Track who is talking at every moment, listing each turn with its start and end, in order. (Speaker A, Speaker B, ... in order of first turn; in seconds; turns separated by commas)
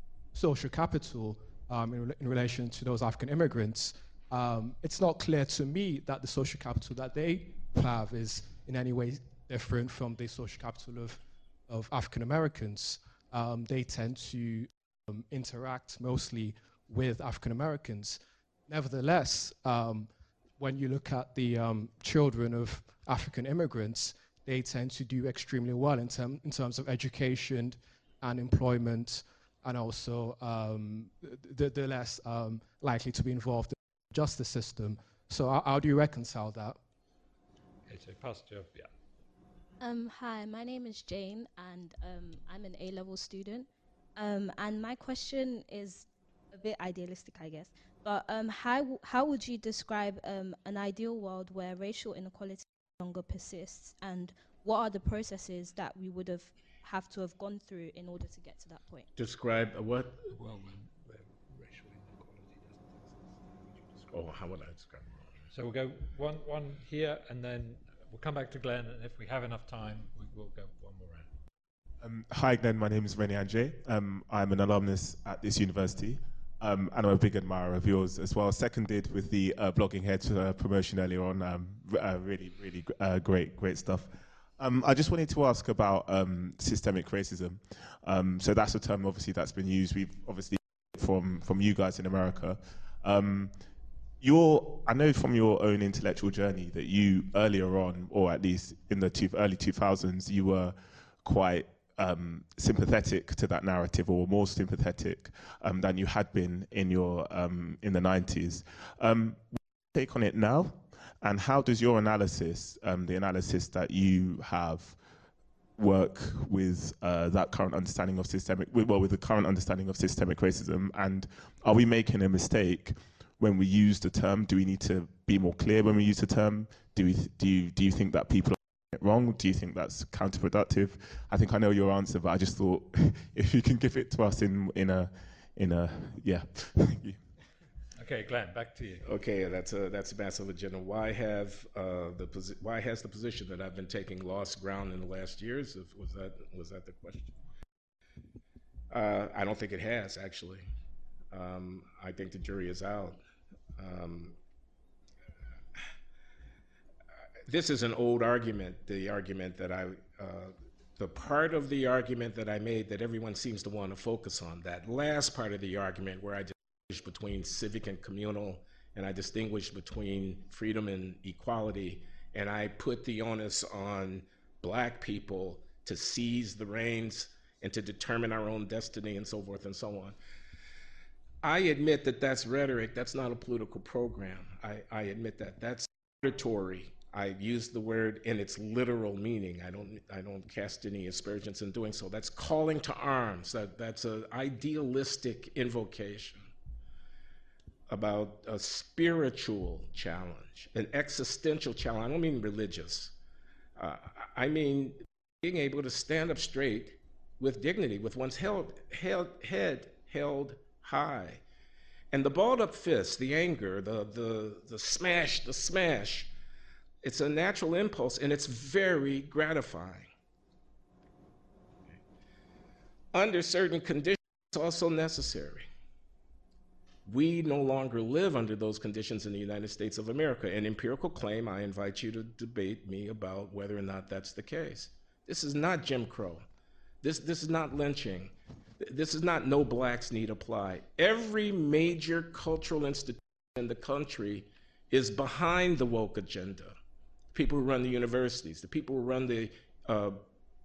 Speaker A: 0.3-36.8, Speaker B: 37.9-38.9, Speaker C: 39.8-59.1, Speaker D: 59.1-60.3, Speaker B: 60.3-64.1, Speaker D: 64.1-65.2, Speaker B: 65.5-71.3, Speaker E: 72.0-93.6, Speaker E: 94.2-115.0, Speaker E: 115.8-137.2, Speaker B: 137.9-139.0, Speaker D: 139.0-147.4, Speaker D: 148.9-150.6, Speaker D: 151.3-153.2, Speaker D: 153.8-154.3, Speaker D: 157.4-180.2, Speaker D: 181.4-196.5, Speaker D: 197.9-203.1, Speaker D: 203.8-211.4, Speaker D: 212.1-216.3, Speaker D: 217.0-220.1, Speaker D: 223.1-225.7, Speaker D: 227.1-236.4, Speaker D: 237.0-246.7, Speaker D: 247.3-250.2